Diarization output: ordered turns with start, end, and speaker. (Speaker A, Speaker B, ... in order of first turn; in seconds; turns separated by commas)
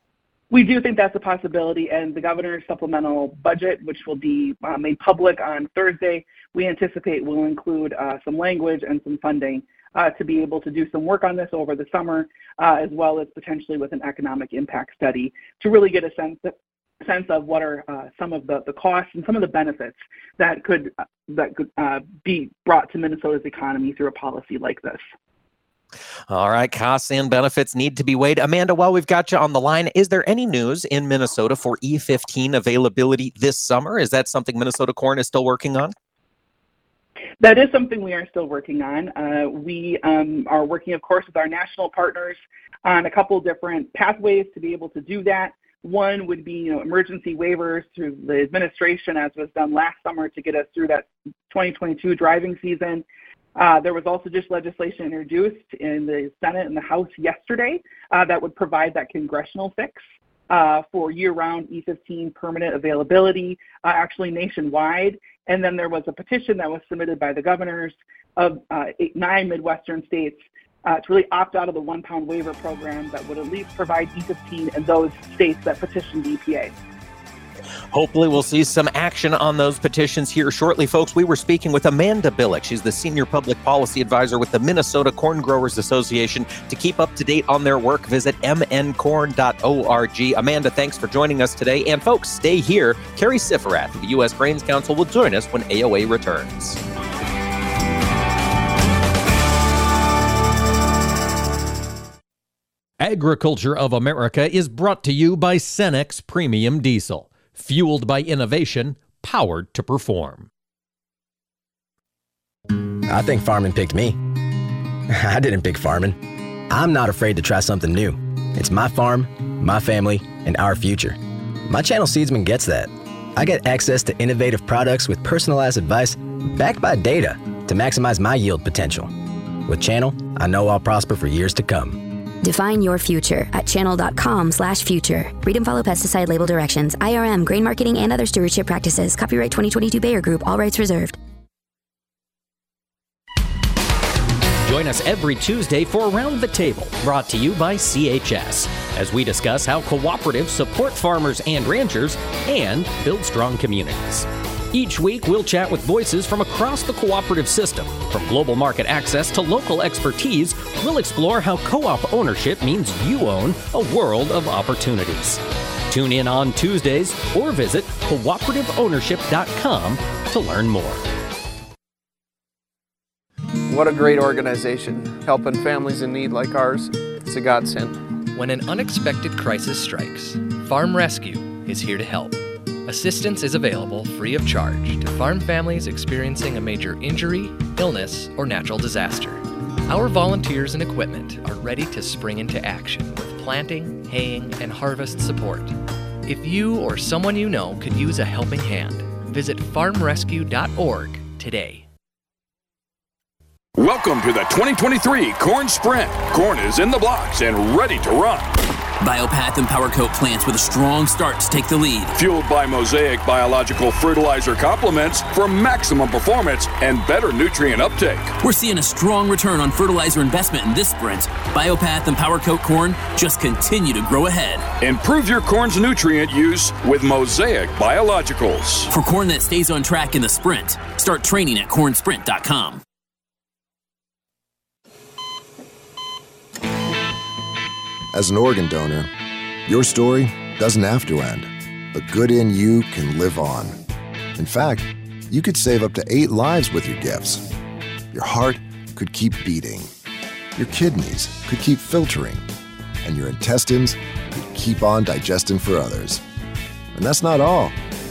Speaker A: 0.5-25.0, Speaker B: 26.3-35.9, Speaker A: 37.4-53.0, Speaker A: 53.6-76.7, Speaker B: 77.9-96.8, Speaker B: 103.0-110.5, Speaker C: 113.1-114.2, Speaker C: 115.1-116.2, Speaker C: 116.7-121.2, Speaker C: 121.7-129.1, Speaker C: 129.7-132.1, Speaker D: 132.4-141.2, Speaker E: 144.7-171.1, Speaker F: 173.7-178.0, Speaker G: 178.3-201.9, Speaker H: 203.8-208.5, Speaker I: 209.0-212.1, Speaker H: 212.1-218.4, Speaker I: 218.4-224.7, Speaker H: 224.8-228.9, Speaker I: 228.9-232.8, Speaker J: 238.1-239.1, Speaker J: 239.7-243.8, Speaker J: 244.4-247.4, Speaker J: 248.1-249.9, Speaker J: 250.6-252.4, Speaker J: 253.0-256.2, Speaker J: 256.9-257.8